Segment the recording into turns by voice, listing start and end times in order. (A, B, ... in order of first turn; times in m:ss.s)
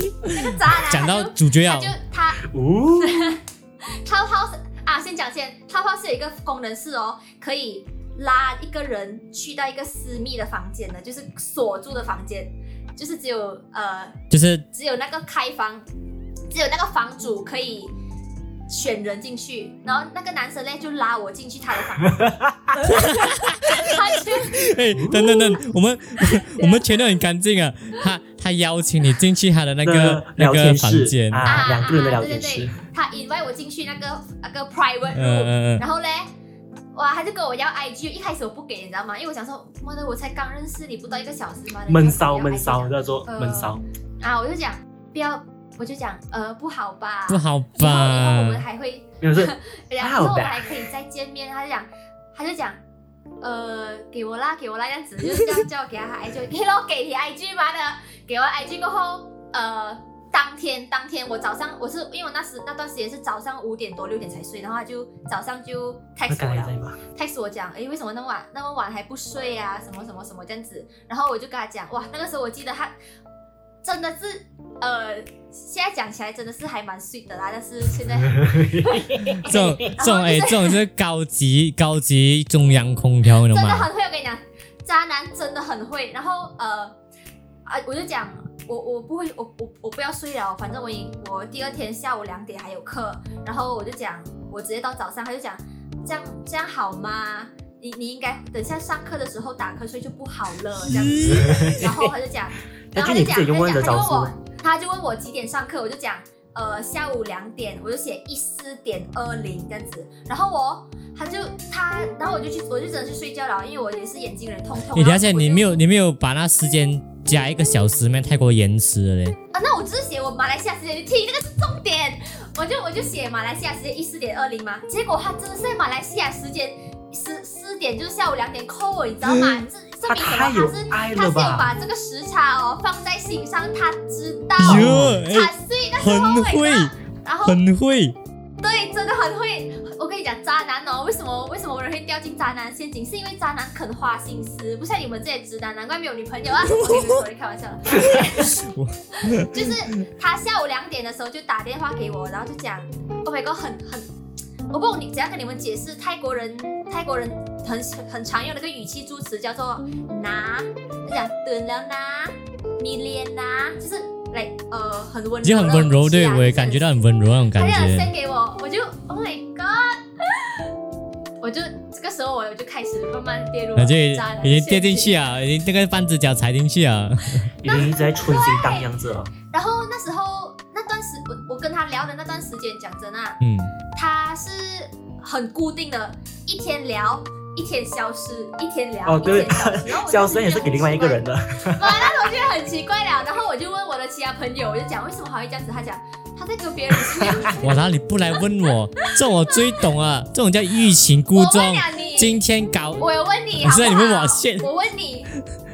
0:00.2-0:02.0 A
0:00.3-0:02.4 B
0:02.4-0:03.3 C
0:03.0-0:03.4 B
0:04.0-0:14.2 B
0:14.3-0:14.6 A
0:14.7-0:15.9 B
0:16.5-0:17.9 B
0:18.7-0:24.7 B
0:22.2-0:22.4 C
0:22.9-0:31.7 A
0:24.9-0:25.4 C
0:26.2-0:26.9 B
0:29.8-0:32.8 C
0:31.4-0:36.3 B
0:35.1-0:35.8 A
0:36.9-0:52.8 B
0:41.9-0:43.8 C
0:47.3-0:48.6 A
0:49.2-0:50.7 C
0:53.4-1:13.0 B
1:06.3-1:07.0 C
1:13.8-1:20.8 B
1:18.1-1:19.4 C
1:19.4-1:23.9 A
1:23.4-1:27.0 B
1:27.7-1:55.8 B
1:40.8-1:41.9 A
1:41.2-1:41.8 C
1:42.9-1:44.3 C
1:54.9-1:59.4 A
1:59.5-2:17.6 B
2:09.3-2:09.6 A
2:10.0-2:11.8 C
2:14.6-2:16.9 A
2:14.6-2:15.2 C
2:17.4-2:18.2 A
2:18.6-2:28.6 B
2:26.6-2:27.2 A
2:27.9-2:30.0 A
2:29.2-2:34.1 B
2:34.7-2:47.0 B
2:45.4-2:48.1 A
2:47.6-2:50.7 B
2:51.4-2:55.2 B
2:53.8-2:57.5 A
2:57.6-2:59.3 C
2:57.6-2:58.9 B
2:59.5-3:03.4 B
3:03.4-3:03.7 A
3:04.0-3:18.4 B
3:09.1-3:12.2 C
3:17.1-3:17.4 C
3:17.6-3:23.0 A
3:19.0-3:19.8 B
3:21.3-3:22.4 B
3:23.0-3:25.3 B
3:23.6-3:24.7 A